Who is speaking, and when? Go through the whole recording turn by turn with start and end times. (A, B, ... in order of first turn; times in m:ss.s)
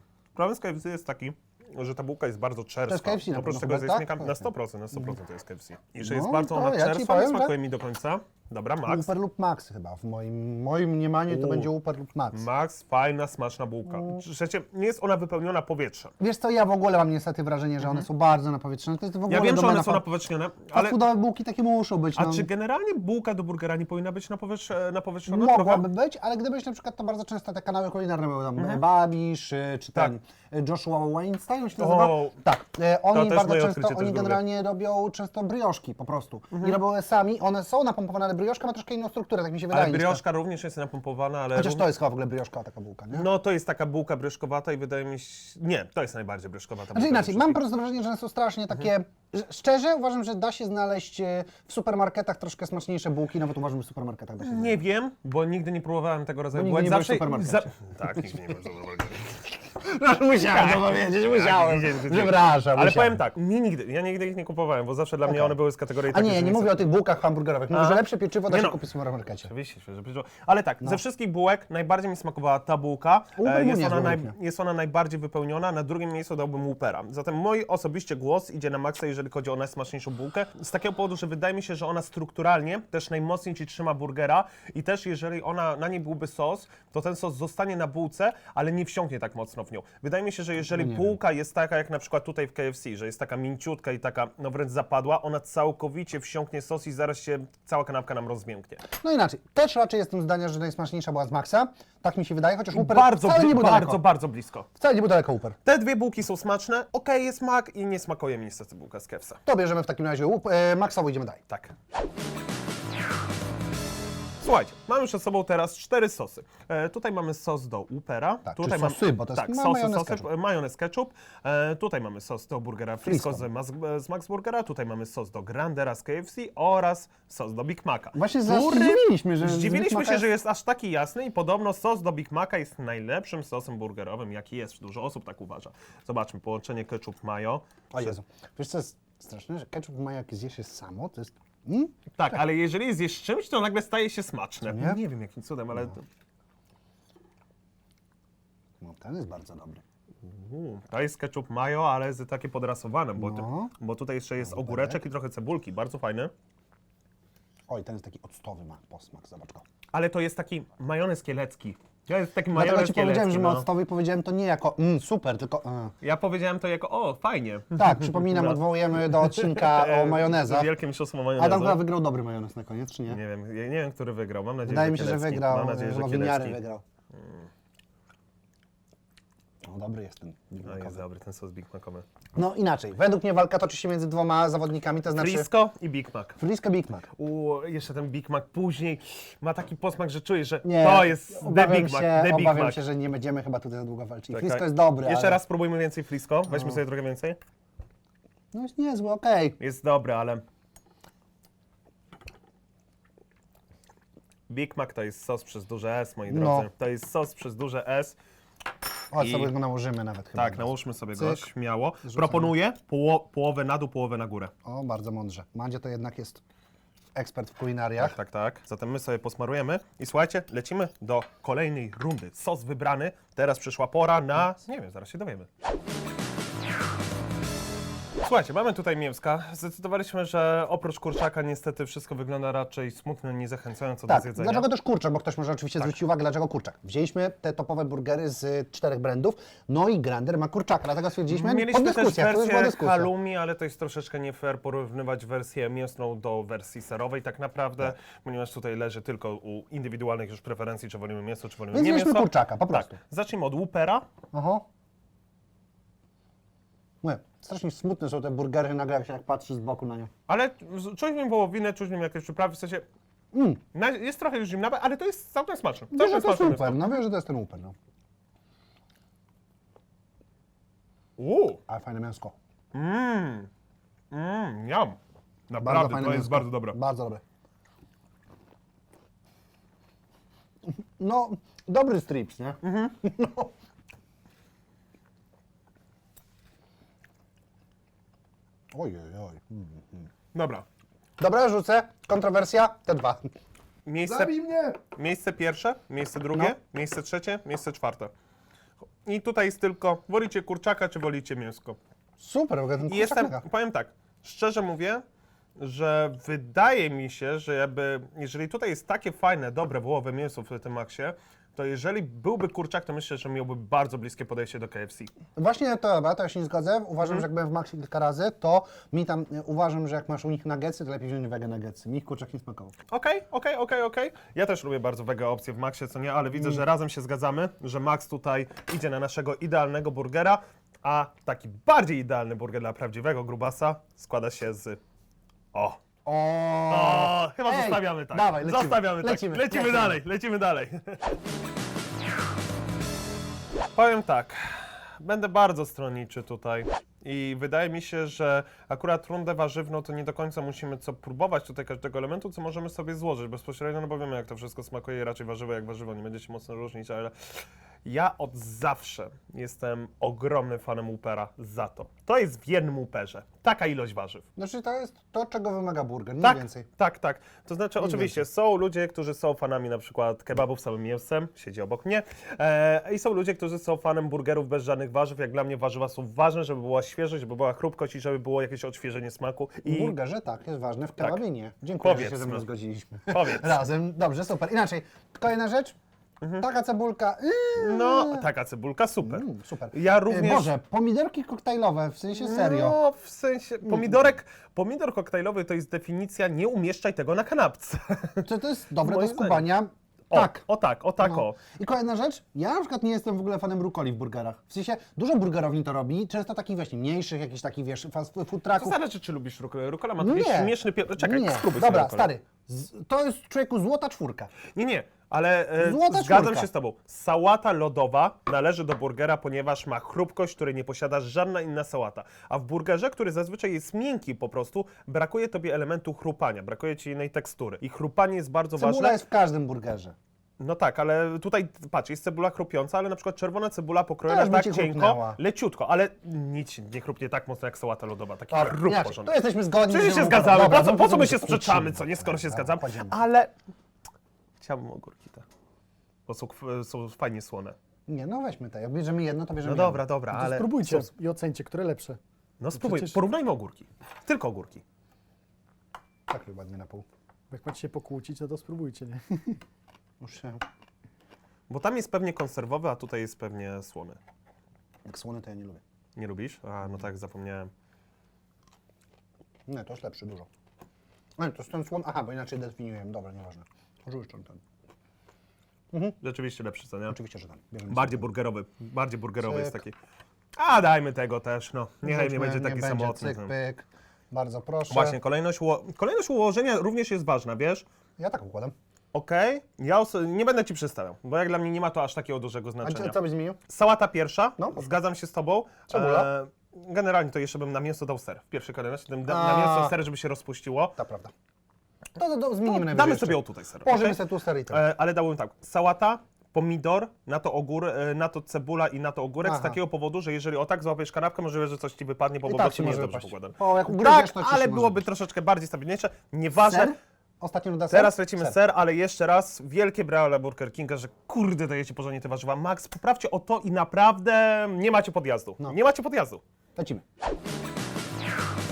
0:00.4-0:09.1 A
0:02.9-0:05.2 B
0:06.0-0:07.6 B
0:08.8-0:12.5 B
0:11.3-0:11.7 A
0:12.3-0:16.1 A
0:13.9-0:14.2 B
0:16.2-0:20.0 B
0:19.3-0:21.0 A
0:20.7-0:22.5 B
0:22.2-0:25.8 A
0:25.3-0:40.2 B
0:31.8-0:32.4 A
0:33.1-0:34.4 A
0:39.7-0:41.9 A
0:41.5-0:43.3 B
0:43.1-0:47.6 A
0:46.9-0:54.8 B
0:54.4-0:59.3 A
0:56.5-0:58.6 B
0:59.2-1:03.2 B
1:00.5-1:06.8 A
1:05.2-1:05.6 B
1:06.1-1:09.5 B
1:07.7-1:08.8 A
1:09.4-1:38.8 A
1:13.4-1:14.4 B
1:30.7-1:31.2 B
1:39.0-1:44.0 B
1:42.7-1:44.7 A
1:44.8-1:45.6 B
1:45.6-1:49.4 A
1:49.5-1:51.4 B
1:54.4-2:18.2 A
1:58.4-2:00.3 B
2:03.0-2:03.5 B
2:08.2-2:10.3 B
2:17.9-2:22.0 B
2:22.2-2:26.0 A
2:24.7-2:25.0 B
2:28.8-2:29.8 B
2:30.2-2:36.3 A
2:33.2-2:33.7 B
2:34.4-2:35.0 B
2:37.7-2:39.6 B
2:39.9-2:43.7 A
2:42.5-2:46.0 B
2:46.0-2:51.8 A
2:47.8-2:50.7 B
2:51.4-2:53.2 B
2:53.1-2:56.6 A
2:54.7-2:56.8 B
2:57.2-2:57.5 A
2:59.6-3:01.0 B
3:00.6-3:02.0 A
3:02.4-3:05.5 B
3:05.1-3:06.4 A
3:06.4-3:07.1 B
3:07.2-3:12.8 A
3:10.6-3:15.4 B
3:14.3-3:17.4 A
3:16.5-3:16.8 B
3:18.5-3:19.6 B
3:19.6-3:20.4 A
3:24.5-3:28.2 A
3:26.3-3:26.7 B
3:29.1-3:31.5 B
3:29.2-3:29.5 A
3:30.4-3:34.5 A
3:32.0-3:32.5 B
3:34.6-3:36.4 B
3:37.2-3:38.2 B
3:38.0-3:45.5 A
3:48.2-3:54.7 A
3:54.1-4:03.1 B
4:01.3-4:14.0 A
4:11.7-4:13.0 B
4:14.3-4:14.6 B
4:17.0-4:20.1 B
4:20.3-4:22.9 A
4:23.3-4:23.6 B
4:23.7-4:26.8 A
4:25.9-4:27.8 B
4:31.2-4:31.6 A
4:31.7-4:32.4 B
4:32.7-4:33.5 A
4:34.1-4:35.0 A
4:35.5-4:36.8 A
4:35.6-4:37.2 B
4:40.7-4:43.5 B
4:42.6-4:43.0 A
4:48.7-4:50.1 B
4:50.3-4:50.6 A
4:51.2-4:53.2 B
4:53.9-4:58.1 A
4:54.0-4:54.8 B
4:59.0-5:01.8 A
5:02.2-5:03.4 B
5:02.9-5:05.0 A
5:05.6-5:15.1 A
5:15.4-5:22.7 B
5:22.9-5:34.8 A
5:26.4-5:26.6 B
5:35.5-5:35.8 A
5:36.0-5:40.0 B
5:36.7-5:41.2 A
5:43.8-6:04.2 A
6:04.4-6:06.7 B
6:06.2-6:20.0 A
6:07.8-6:08.2 B
6:19.6-6:25.8 B
6:21.8-6:22.4 A
6:23.1-6:23.6 A
6:26.4-6:28.3 B
6:27.6-6:30.5 A
6:29.0-6:32.8 B
6:32.1-6:38.3 A
6:33.6-6:34.1 B
6:38.2-6:40.5 B
6:38.8-6:39.5 A
6:40.1-6:41.4 A
6:41.0-6:48.8 B
6:48.6-6:52.1 A
6:50.0-6:54.3 B
6:54.5-7:09.0 A
6:55.6-6:56.5 B
7:08.6-7:10.0 B
7:10.4-7:23.4 A
7:14.1-7:15.2 B
7:18.3-7:23.0 B
7:24.4-7:25.3 A
7:26.1-7:27.6 A
7:27.9-7:29.9 B
7:29.4-7:30.9 A
7:30.1-7:32.0 C
7:32.4-7:34.6 A
7:32.6-7:33.0 C
7:36.1-7:36.8 B
7:37.3-7:39.4 C
7:40.0-7:40.4 B
7:41.5-7:44.0 A
7:44.8-7:45.6 B
7:46.0-7:47.5 A
7:49.5-7:50.3 B
7:51.2-7:54.4 B
7:55.7-7:56.0 B
7:56.0-7:57.0 A
7:56.9-7:58.1 B
7:57.7-7:59.8 A
7:59.2-7:59.6 B
8:00.4-8:03.3 A
8:01.8-8:05.0 B
8:04.7-8:07.6 A
8:08.0-8:08.5 B
8:08.9-8:13.0 A
8:12.6-8:13.4 B
8:13.5-8:20.8 A
8:14.4-8:14.7 B
8:15.7-8:16.1 B
8:19.1-8:19.8 B
8:20.8-8:21.1 B
8:22.0-8:24.6 B
8:22.5-8:36.7 A
8:29.2-8:29.6 B
8:32.2-8:34.8 B
8:36.4-8:38.4 B
8:37.7-8:46.2 A
8:46.6-8:46.8 B